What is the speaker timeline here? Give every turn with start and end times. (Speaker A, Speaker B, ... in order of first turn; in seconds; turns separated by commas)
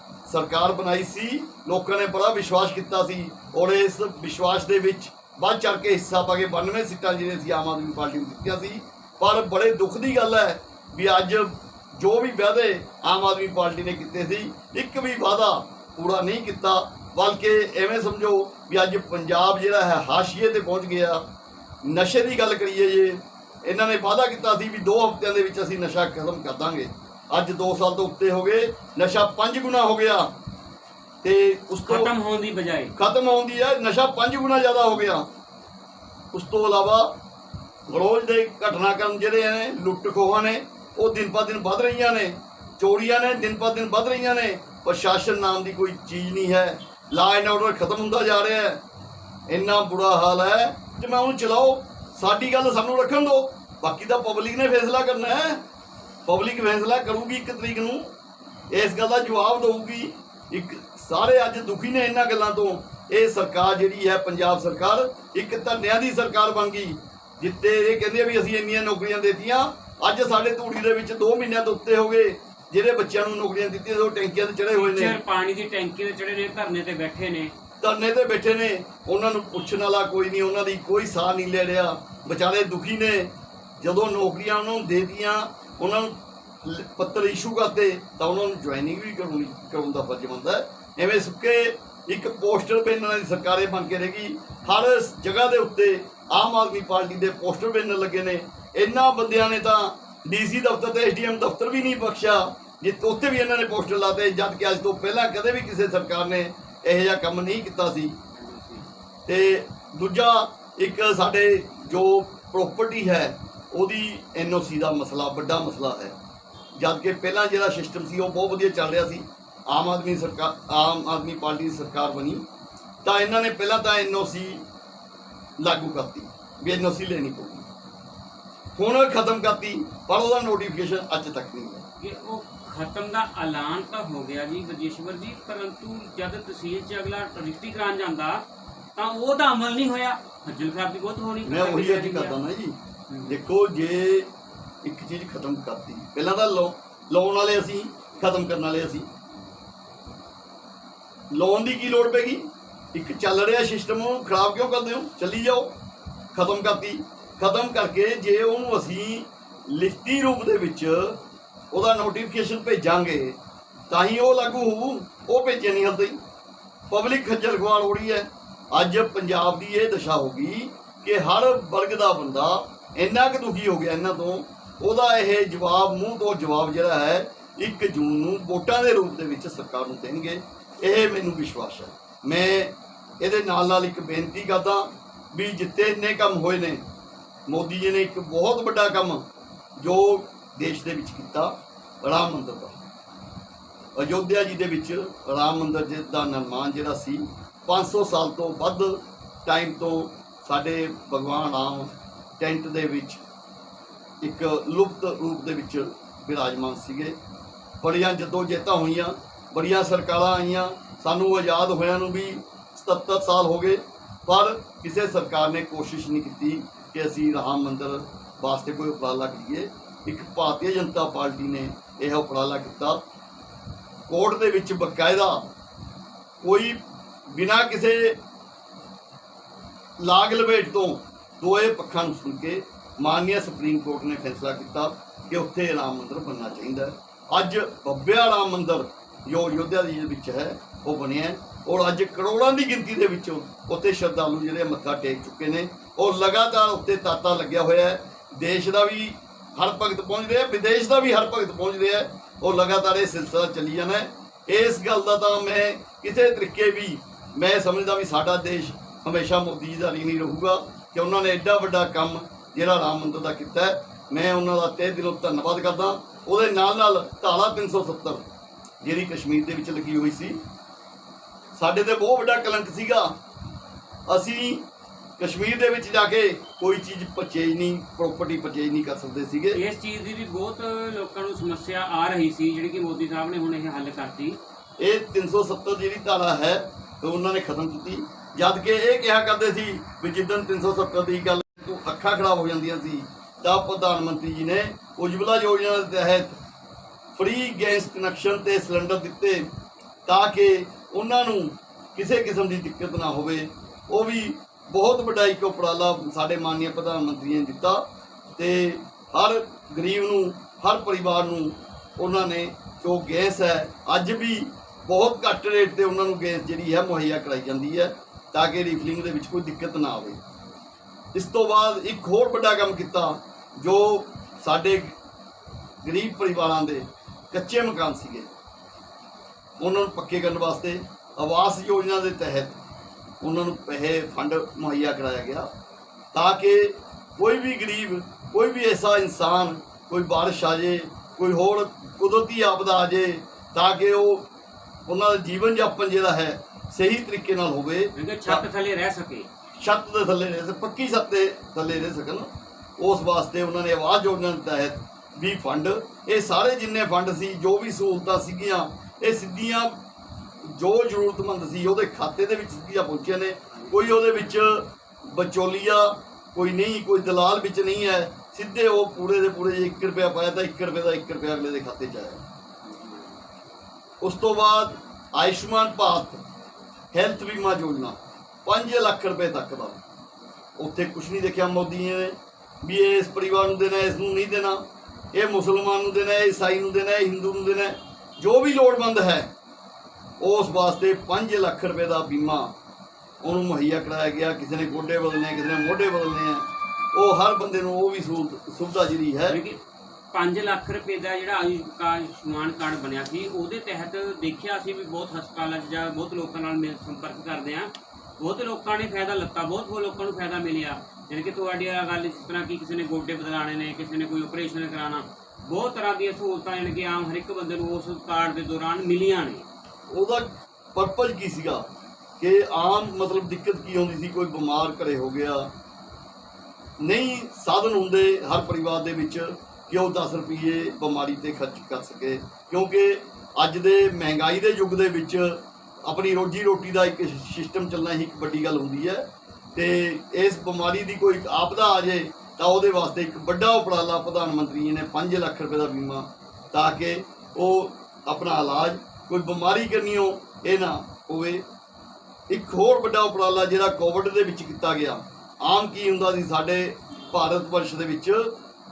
Speaker A: 0.3-21.2, Speaker A: 21.8-30.3, Speaker A: 31.2-32.1, Speaker B: 31.9-32.9, Speaker A: 33.0-35.3, Speaker A: 36.3-37.2, Speaker A: 37.9-48.8, Speaker A: 49.5-55.6, Speaker A: 56.2-58.1, Speaker A: 58.7-75.2, Speaker B: 74.7-77.5, Speaker A: 77.8-108.2, Speaker B: 108.3-108.8, Speaker A: 109.3-116.2, Speaker A: 116.8-122.4, Speaker A: 123.0-124.6, Speaker A: 125.6-127.7, Speaker A: 128.8-131.8, Speaker B: 132.0-138.4, Speaker B: 138.9-142.4, Speaker A: 141.4-144.3, Speaker B: 143.1-143.4, Speaker A: 144.8-149.1, Speaker A: 151.3-155.7, Speaker A: 156.3-161.2, Speaker A: 161.7-163.4, Speaker A: 163.9-166.2, Speaker A: 166.9-186.8, Speaker A: 187.5-192.8, Speaker A: 193.9-203.2, Speaker A: 204.2-207.2, Speaker A: 207.8-223.0, Speaker A: 224.1-225.5, Speaker A: 226.4-228.2, Speaker A: 230.0-268.2, Speaker A: 268.8-270.4, Speaker A: 271.5-273.1, Speaker A: 274.1-274.6, Speaker A: 275.2-279.6, Speaker B: 279.5-284.4, Speaker A: 284.8-296.4, Speaker A: 297.1-299.5, Speaker A: 300.1-320.2, Speaker A: 321.1-324.9, Speaker A: 325.8-328.3, Speaker A: 329.6-332.6, Speaker A: 333.2-335.5, Speaker A: 336.1-344.3, Speaker A: 344.9-348.4, Speaker B: 347.9-349.3, Speaker A: 349.6-359.8, Speaker A: 360.4-372.2, Speaker B: 363.5-364.2, Speaker B: 372.6-373.1, Speaker A: 374.0-376.2, Speaker A: 376.9-379.8, Speaker A: 380.6-384.6, Speaker A: 385.1-389.3, Speaker A: 390.2-392.5, Speaker A: 393.2-399.4, Speaker B: 399.3-399.6, Speaker B: 400.1-419.4, Speaker A: 419.9-421.6, Speaker A: 422.2-425.5, Speaker A: 426.8-451.4, Speaker A: 452.3-458.3